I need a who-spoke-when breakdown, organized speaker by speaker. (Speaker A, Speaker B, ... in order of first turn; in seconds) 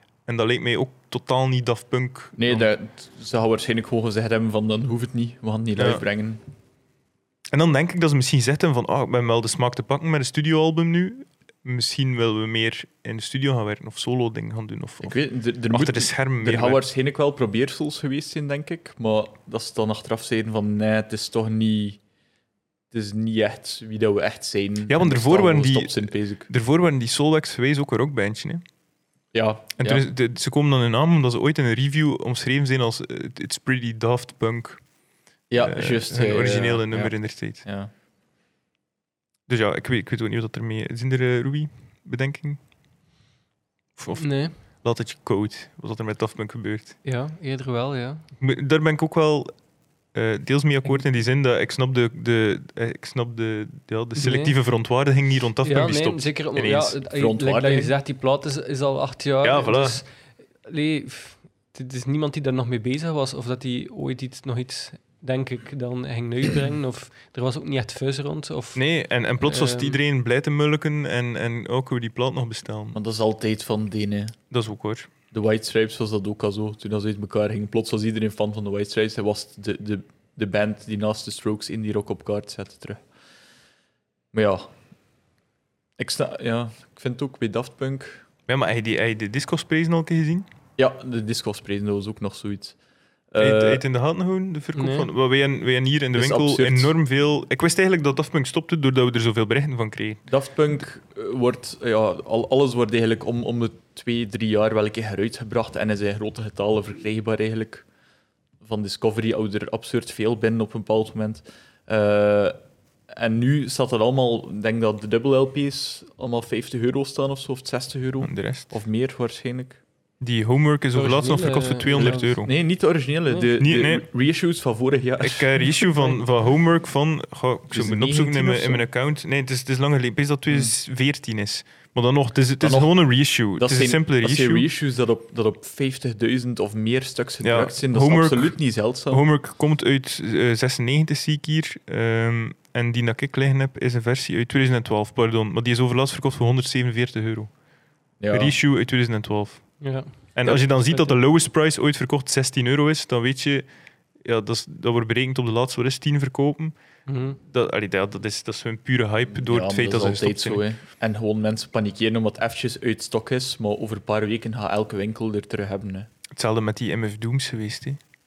Speaker A: 0.3-2.7, 5.8-6.0, 7.5-15.2, 15.7-16.8, 24.9-28.6, 29.8-34.8, 35.6-37.6, 39.5-42.6, 44.0-47.0, 48.4-49.5, 50.1-57.0, 59.4-60.0, 68.8-73.0, 74.5-75.1, 88.5-90.5, 93.4-100.2, 118.2-118.7, 120.2-122.5, 123.6-124.0, 125.2-134.7, 137.4-147.5, 148.3-153.7, 154.2-156.8, 157.4-160.6, 166.3-168.0
Speaker B: 2.4-6.4, 15.0-22.0, 22.9-26.5, 29.3-30.0, 35.5-37.9, 57.1-58.0, 72.9-74.4, 75.3-83.0, 84.3-84.7, 86.0-88.2, 90.8-92.8, 93.3-93.8, 96.2-96.9, 100.3-107.9, 108.6-112.6, 113.1-119.8, 121.9-125.7, 127.7-128.8, 132.6-139.2, 148.2-148.6, 159.3-166.1
Speaker C: 44.2-44.6, 47.0-48.3, 54.2-54.6, 55.6-60.1, 60.6-68.8, 69.4-70.0, 94.8-95.1, 121.0-122.4, 149.8-151.2, 157.1-157.4